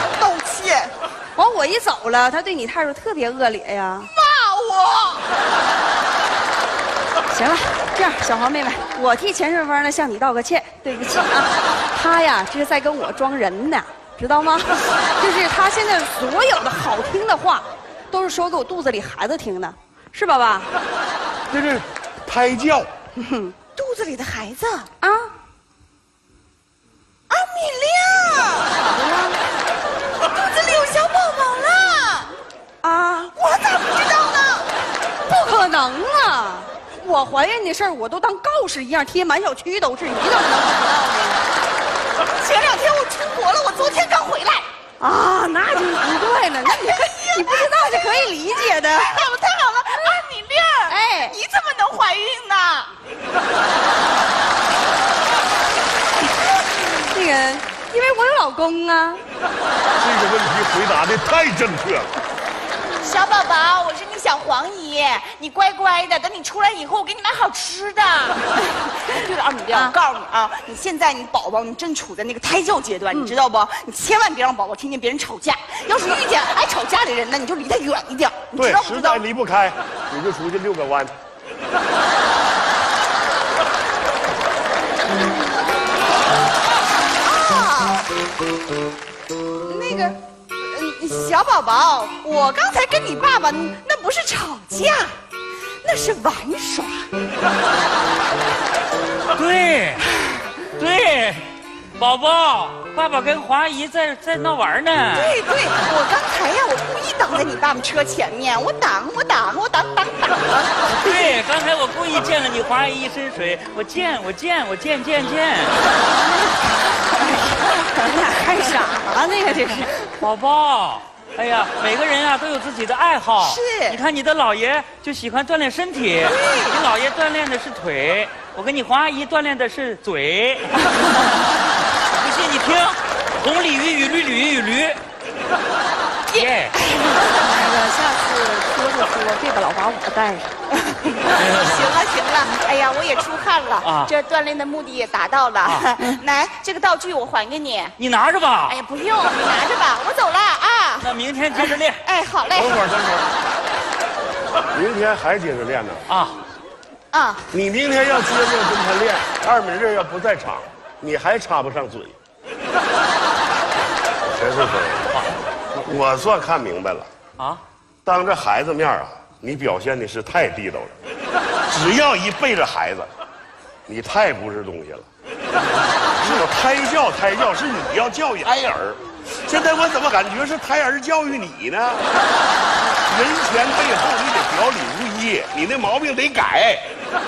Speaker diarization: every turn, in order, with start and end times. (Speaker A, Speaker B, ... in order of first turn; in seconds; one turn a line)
Speaker A: 0.2-0.9
Speaker B: 1.4-4.1
Speaker A: 4.1-5.3
Speaker B: 7.3-20.7
Speaker C: 21.5-22.9
Speaker B: 23.2-23.5
Speaker A: 23.8-24.9
Speaker B: 25.0-25.3
Speaker A: 27.3-28.8
Speaker B: 28.8-29.4
Speaker A: 30.2-32.3
Speaker B: 32.8-33.3
Speaker A: 33.4-34.7
Speaker B: 35.3-41.5
Speaker A: 42.4-44.7
Speaker B: 45.0-49.2
Speaker A: 46.7-52.9
Speaker B: 50.9-51.4
Speaker B: 57.1-59.2
Speaker C: 60.0-62.1
Speaker A: 63.0-79.2
Speaker C: 78.6-81.1
Speaker A: 87.2-88.1
Speaker A: 89.6-95.2
Speaker A: 95.8-97.1
Speaker D: 99.3-100.0
Speaker A: 100.1-100.5
Speaker D: 100.7-105.4
Speaker A: 105.1-111.3
Speaker D: 110.8-115.8
Speaker A: 117.2-117.5
Speaker B: 117.4-120.1
Speaker D: 120.2-130.8
Speaker A: 123.4-124.0
Speaker A: 126.2-126.8
Speaker D: 132.1-135.0
Speaker D: 136.3-136.8
Speaker A: 136.3-137.4
Speaker B: 137.4-140.5
Speaker A: 140.9-147.9
Speaker D: 141.3-141.9
Speaker D: 143.8-144.1
Speaker D: 148.0-148.8
Speaker A: 148.7-152.8
Speaker D: 151.0-152.0
Speaker C: 152.5-153.3
Speaker C: 154.7-156.0
Speaker D: 156.1-156.4
Speaker A: 157.1-157.5
Speaker C: 157.5-162.2
Speaker C: 164.2-165.1
Speaker C: 165.8-167.1
Speaker C: 168.1-171.0
Speaker C: 171.7-173.1
Speaker C: 173.9-175.1
Speaker D: 176.0-176.4
Speaker C: 176.2-182.1
Speaker C: 182.9-186.9